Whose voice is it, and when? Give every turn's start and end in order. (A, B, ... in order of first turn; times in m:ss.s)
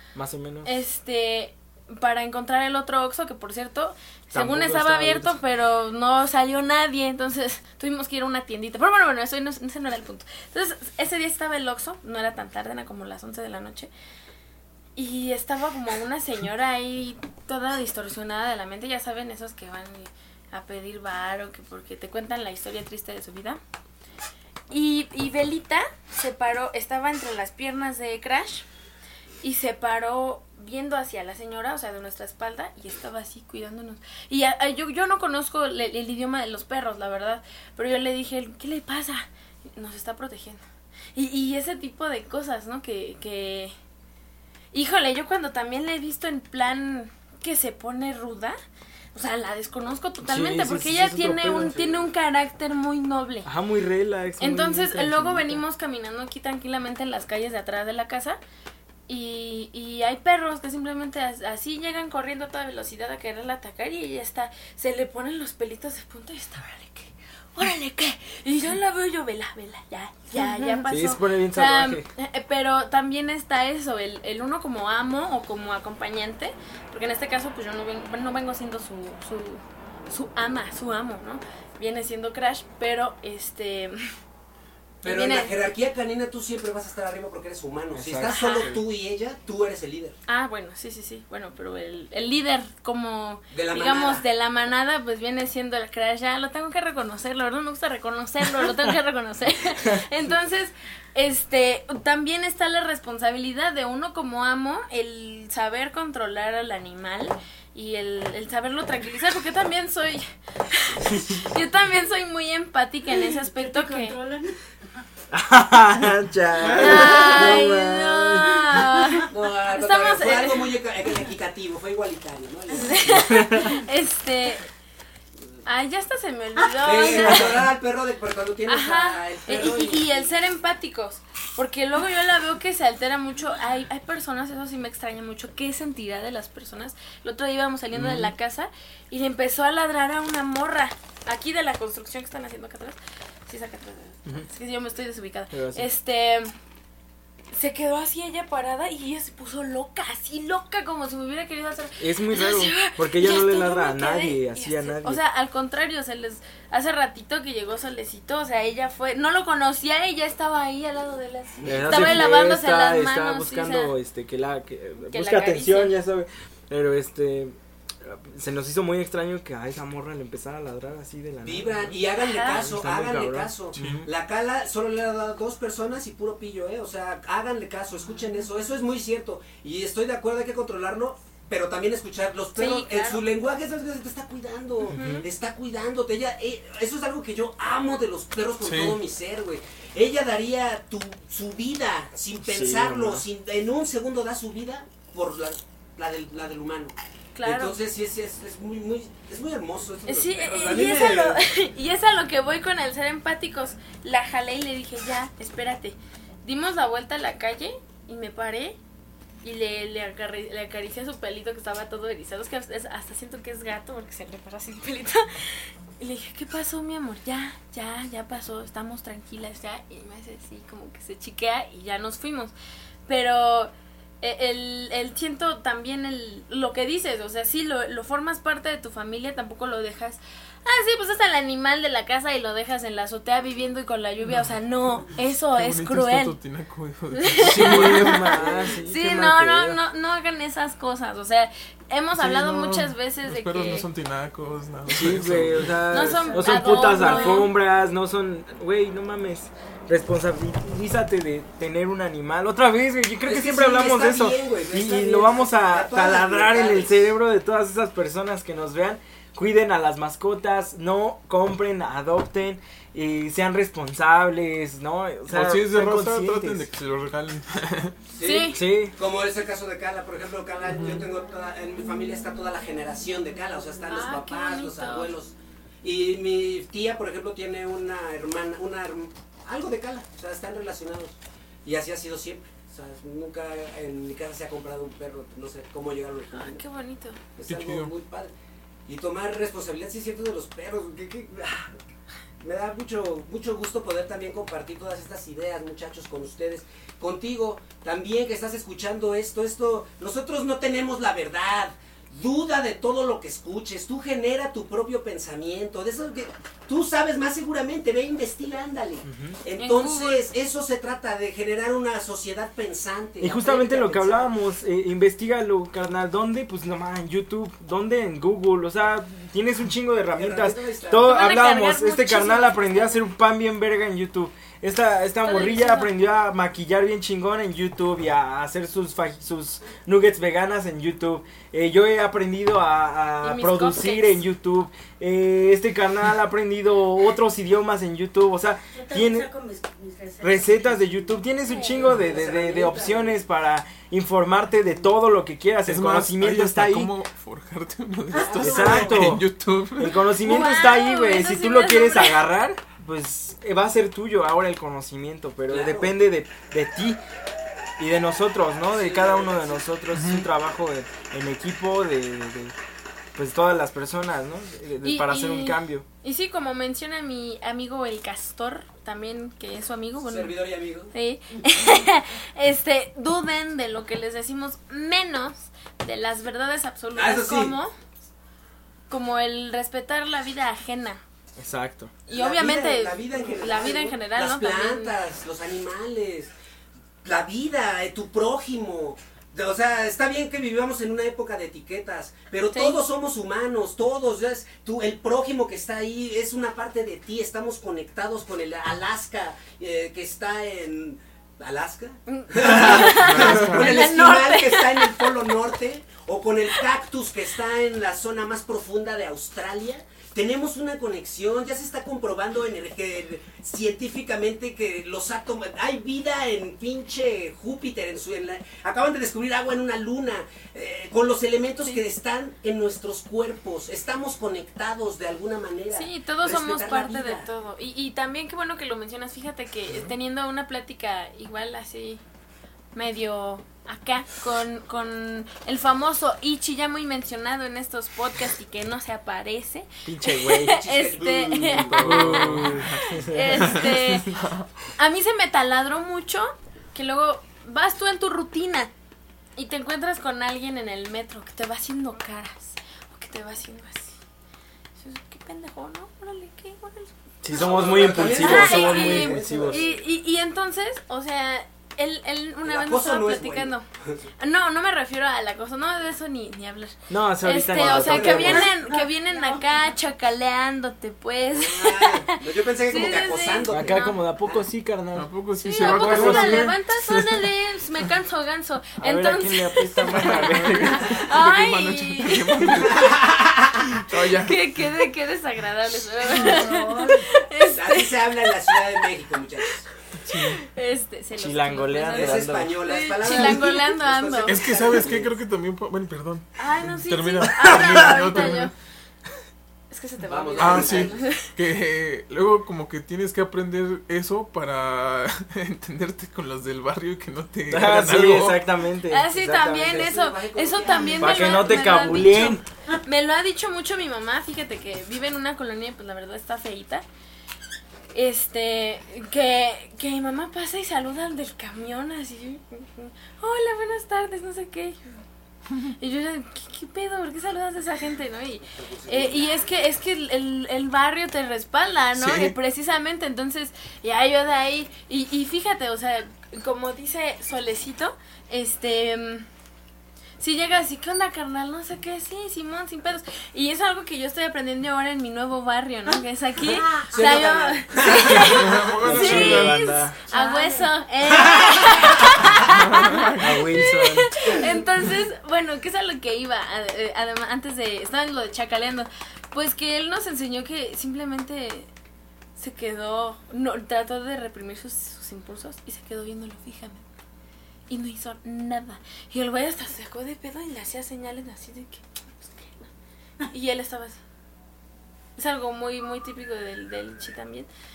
0:00.2-0:00.8 A
0:00.6-0:13.9 B
0:04.3-0:05.4 A
0:15.0-0:23.6 B
0:24.7-0:28.7 B
0:29.4-0:40.6 B
0:41.2-0:43.7 B
0:44.7-0:48.6 B
0:49.1-0:53.5 B
0:50.2-0:52.0 A
0:53.4-0:55.6 A
0:54.4-0:58.4 B
0:59.1-1:24.0 B
1:10.8-1:12.1 A
1:25.0-1:30.2 C
1:25.0-1:25.6 B
1:27.9-1:28.8 A
1:28.2-1:28.7 B
1:30.3-1:54.2 B
1:33.5-1:34.2 C
1:51.1-1:51.4 A
1:53.2-1:54.6 D
1:55.3-1:58.8 A
1:56.6-1:57.1 E
1:56.8-2:00.7 B
1:59.3-2:03.5 C
2:02.7-2:04.7 B
2:05.6-2:07.7 B
2:06.8-2:10.3 C
2:08.7-2:26.6 B
2:17.9-2:18.3 A
2:25.5-2:25.9 A
2:27.5-2:43.9 B
2:32.0-2:35.2 A
2:41.6-2:42.3 C
2:41.6-2:54.1 A
2:45.1-2:46.0 B
2:51.4-3:21.4 C
2:52.2-2:52.7 B
2:53.8-2:54.1 E
3:02.6-3:03.2 B
3:04.9-3:05.2 B
3:04.9-3:05.3 A
3:08.6-3:09.0 E
3:12.4-3:13.2 A
3:17.4-3:17.8 B
3:20.1-3:28.8 B
3:29.4-3:42.5 B
3:43.1-3:56.4 B
3:55.5-3:58.5 E
3:57.2-4:03.9 B
3:57.4-3:59.8 A
4:02.2-4:06.1 E
4:04.9-4:26.7 A
4:05.9-4:07.5 B
4:06.2-4:07.5 D
4:13.2-4:17.1 C
4:25.3-4:28.0 E
4:28.2-4:46.6 C
4:28.2-4:28.6 B
4:28.5-4:29.0 A
4:30.7-4:31.1 E
4:33.9-4:35.1 B
4:46.3-4:47.2 B
4:47.4-4:48.3 C
4:47.5-4:47.9 E
4:48.9-4:51.7 C
4:52.4-5:14.3 C
5:09.0-5:09.4 A
5:09.6-5:10.2 B
5:13.2-5:39.3 A
5:20.2-5:21.2 C
5:21.0-5:23.0 B
5:25.2-5:25.9 B
5:33.2-5:34.2 B
5:38.7-5:43.2 D
5:40.2-5:46.9 A
5:45.6-5:50.0 E
5:48.1-5:49.2 C
5:48.3-5:49.2 A
5:49.8-5:57.0 A
5:50.2-5:52.2 B
5:55.5-5:55.9 C
5:57.8-6:02.6 A
5:58.7-5:59.7 C
5:59.9-6:00.3 E
6:03.2-6:05.8 A
6:04.8-6:10.4 B
6:10.0-6:10.9 C
6:10.9-6:17.7 B
6:17.0-6:17.6 C
6:18.9-6:21.0 B
6:21.4-6:21.9 A
6:22.1-6:25.0 B
6:22.1-6:26.3 C
6:27.0-7:07.3 C
6:32.5-6:32.8 B
6:42.1-6:45.1 B
6:42.7-6:43.8 E
7:05.7-7:12.0 B
7:12.8-7:24.1 B
7:19.9-7:20.6 A
7:20.5-7:22.0 C
7:21.5-7:23.8 A
7:21.5-7:22.8 E
7:23.3-7:24.5 E
7:24.8-7:28.7 B
7:29.4-7:34.0 B
7:34.8-7:36.9 B
7:37.2-7:39.7 A
7:37.3-7:39.7 C
7:37.4-7:43.7 B
7:42.5-7:44.1 C
7:44.2-7:54.0 B
7:46.9-7:48.5 A
7:47.5-7:48.6 C
7:48.6-7:49.5 D
7:51.3-7:54.4 C
7:53.5-7:55.1 A
7:54.9-7:57.2 E
7:55.4-8:02.9 B
7:55.6-7:56.5 A
7:58.8-8:01.0 A
7:59.9-8:03.0 E
8:02.7-8:03.8 C
8:03.8-8:04.4 E
8:04.2-8:08.8 B
8:06.0-8:09.7 C
8:10.0-8:10.4 E
8:10.1-8:14.5 B
8:11.2-8:12.6 A
8:11.9-8:15.1 C
8:13.1-8:13.4 A
8:14.3-8:18.5 E
8:16.4-8:18.5 B
8:19.7-8:21.3 B
8:20.0-8:21.0 C
8:20.4-8:28.4 E
8:27.5-8:29.9 A
8:28.9-8:36.8 B
8:29.5-8:31.9 C
8:31.0-8:32.4 A
8:37.9-8:45.0 B
8:45.8-8:59.3 B
8:48.5-8:49.4 C
8:52.0-8:52.3 A
9:00.2-9:21.7 B
9:06.9-9:08.8 C
9:08.1-9:09.6 E
9:08.8-9:10.0 A
9:10.1-9:10.8 D
9:11.3-9:11.9 C
9:12.5-9:13.1 E
9:13.2-9:14.1 A
9:22.4-9:26.8 B
9:27.7-9:32.7 B
9:33.3-9:34.0 B
9:35.2-9:37.5 B